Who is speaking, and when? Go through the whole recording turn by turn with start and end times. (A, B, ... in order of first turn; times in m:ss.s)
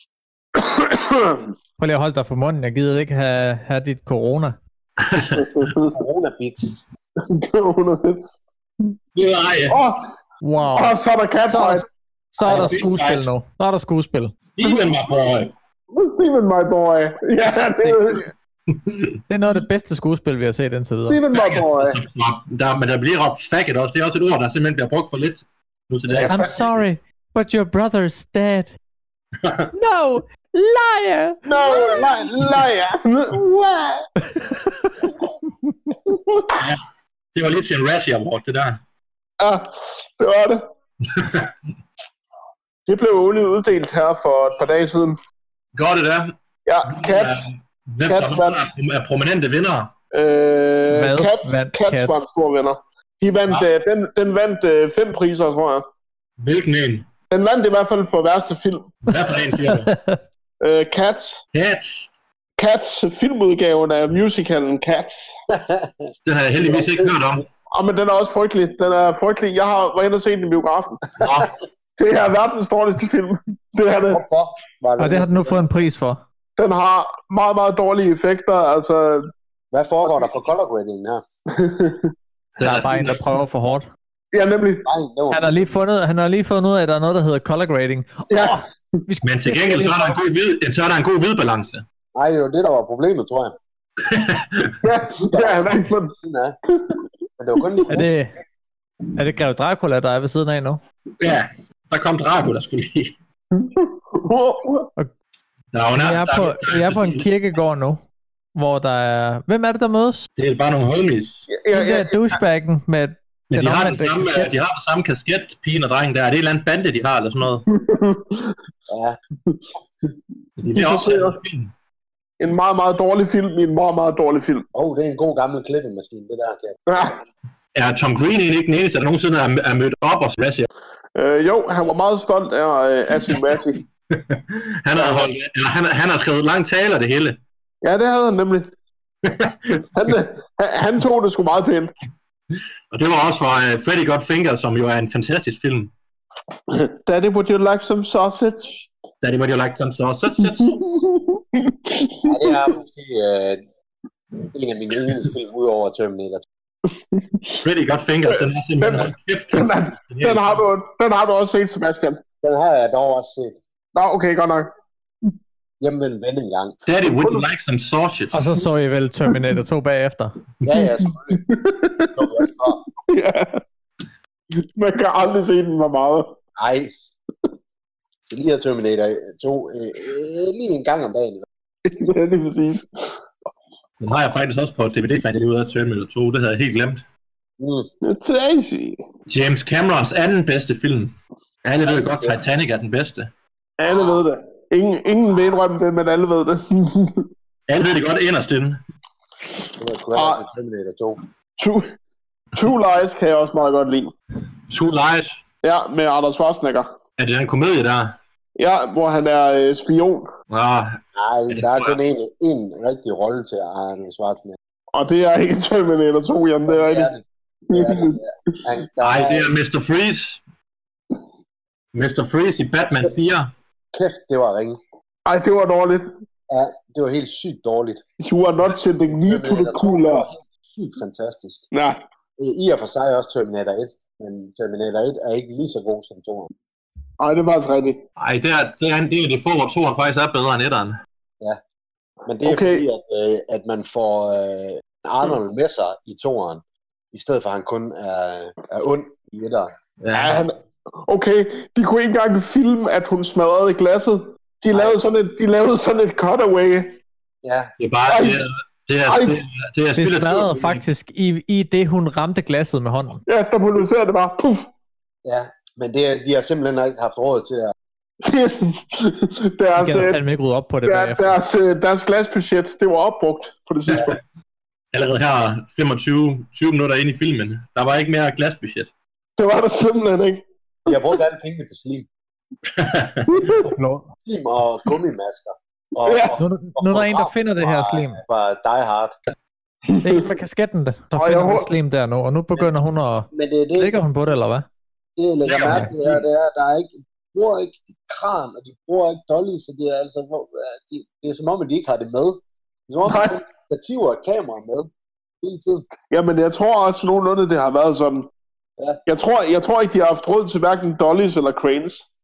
0:00.5-0:01.5 A
0:01.8-0:04.6 B
0:05.0-0:05.6 C
0:05.3-0:05.9 A
0:05.8-0:06.8 D
0:07.2-0:08.9 A
0:09.1-0:09.8 C
0:09.7-0:10.1 A
0:10.4-0:11.0 B
0:10.7-0:11.8 A
0:11.5-0:14.3 B
0:12.4-0:13.3 C
0:14.5-0:15.5 C
0:14.6-0:14.9 A
0:15.9-0:18.3 A
0:17.8-0:18.0 B
0:18.7-0:19.2 C
0:19.3-0:21.2 B
0:21.1-0:22.0 A
0:21.3-0:26.6 C
0:26.1-0:26.6 A
0:26.3-0:28.7 B
0:29.4-0:29.7 C
0:29.7-0:32.1 B
0:31.4-0:34.1 A
0:34.3-0:34.6 B
0:36.1-0:36.6 A
0:36.5-0:36.8 C
0:37.3-0:38.8 C
0:39.4-0:40.6 A
0:41.0-0:41.5 C
0:42.9-0:45.2 A
0:45.7-0:46.3 C
0:46.6-0:47.5 A
0:46.8-0:49.9 C
0:48.1-0:48.7 A
0:50.1-0:55.8 A
0:50.9-0:52.2 B
0:56.4-0:57.1 C
0:57.3-0:59.0 A
0:59.0-0:59.9 C
0:59.8-1:00.2 B
1:00.6-1:01.4 A
1:01.5-1:02.1 C
1:02.6-1:05.3 A
1:05.5-1:07.2 D
1:06.2-1:07.4 C
1:07.7-1:11.0 A
1:11.2-1:11.5 C
1:12.0-1:14.2 A
1:14.1-1:15.6 D
1:15.0-1:16.2 B
1:16.6-1:19.3 A
1:19.7-1:21.2 D
1:21.5-1:22.1 A
1:22.6-1:23.2 C
1:22.6-1:23.9 B
1:24.3-1:24.9 A
1:24.8-1:25.8 D
1:25.3-1:30.2 B
1:28.3-1:28.6 A
1:29.2-1:31.8 C
1:32.1-1:33.5 D
1:34.0-1:34.8 C
1:34.8-1:36.1 A
1:35.2-1:36.5 D
1:36.7-1:37.0 A
1:37.4-1:38.1 D
1:37.9-1:38.3 B
1:39.1-1:40.8 B
1:41.2-1:43.1 C
1:43.5-1:44.9 A
1:45.7-1:47.2 C
1:45.9-1:48.0 B
1:48.5-1:50.3 B
1:50.4-1:51.4 C
1:51.5-1:52.4 A
1:51.7-1:54.5 B
1:53.5-1:57.7 C
1:57.7-1:58.5 A
1:58.9-1:59.2 D
2:00.6-2:01.7 C
2:00.7-2:01.4 A
2:02.4-2:04.6 A
2:04.7-2:06.8 D
2:06.9-2:07.2 A
2:07.7-2:10.6 C
2:11.1-2:13.8 A
2:14.1-2:17.4 C
2:15.0-2:15.3 D
2:17.8-2:18.7 A
2:19.2-2:19.8 C
2:19.9-2:21.9 A
2:22.9-2:25.9 C
2:26.7-2:28.9 A
2:29.2-2:30.8 C
2:30.4-2:32.6 A
2:32.2-2:33.6 D
2:34.4-2:36.4 D
2:37.1-2:37.6 A
2:37.6-2:40.6 C
2:38.2-2:42.2 A
2:42.4-2:43.6 D
2:43.9-2:44.7 A
2:45.8-2:46.8 D
2:46.9-2:48.5 C
2:47.2-2:47.4 A
2:48.3-2:50.3 B
2:50.6-2:51.5 D
2:50.7-2:53.6 A
2:52.1-2:52.8 D
2:54.5-2:56.3 A
2:56.6-2:56.9 D
2:58.3-3:01.4 D
3:01.8-3:03.2 A
3:04.0-3:07.0 C
3:07.6-3:07.9 D
3:08.0-3:09.0 A
3:09.3-3:11.1 C
3:11.6-3:13.3 C
3:11.8-3:12.4 D
3:13.8-3:17.3 A
3:17.7-3:18.8 C
3:19.8-3:21.2 D
3:20.2-3:20.4 A
3:21.6-3:21.9 A
3:22.5-3:24.1 A
3:24.7-3:25.4 C
3:25.6-3:26.9 A
3:27.2-3:28.1 C
3:28.6-3:30.3 A
3:30.5-3:32.0 C
3:31.1-3:34.6 D
3:34.9-3:37.1 A
3:36.7-3:39.5 D
3:37.7-3:38.2 A
3:39.0-3:40.4 C
3:41.9-3:43.5 C
3:43.9-3:44.8 D
3:45.2-3:46.1 A
3:46.5-3:48.0 D
3:48.2-3:50.2 A
3:49.2-3:51.6 D
3:51.7-3:52.0 A
3:52.4-3:56.5 D
3:57.2-3:58.0 A
3:58.2-4:01.0 C
4:02.2-4:06.6 D
4:02.4-4:02.8 A
4:07.1-4:09.7 D
4:10.0-4:10.4 C
4:10.1-4:17.0 A
4:14.7-4:15.0 D
4:17.4-4:17.7 D
4:17.8-4:20.8 C
4:18.0-4:18.4 A
4:19.0-4:19.4 A
4:20.0-4:23.2 B
4:23.2-4:24.7 A
4:25.2-4:27.7 D
4:28.2-4:30.2 A
4:29.8-4:31.4 B
4:30.9-4:34.2 A
4:33.9-4:34.2 C
4:34.9-4:38.9 C
4:39.4-4:41.0 A
4:40.8-4:42.1 D
4:42.7-4:43.3 C
4:43.3-4:43.7 A
4:43.6-4:44.1 B
4:44.2-4:49.2 D
4:46.0-4:46.4 A
4:46.4-4:48.2 B
4:49.9-4:50.2 A
4:50.0-4:54.6 B
4:51.2-4:51.7 A
4:53.3-4:54.0 D
4:55.2-5:04.9 D
4:55.4-4:56.2 C
5:03.0-5:03.4 A
5:05.4-5:05.8 D
5:06.1-5:08.3 A
5:09.0-5:12.0 A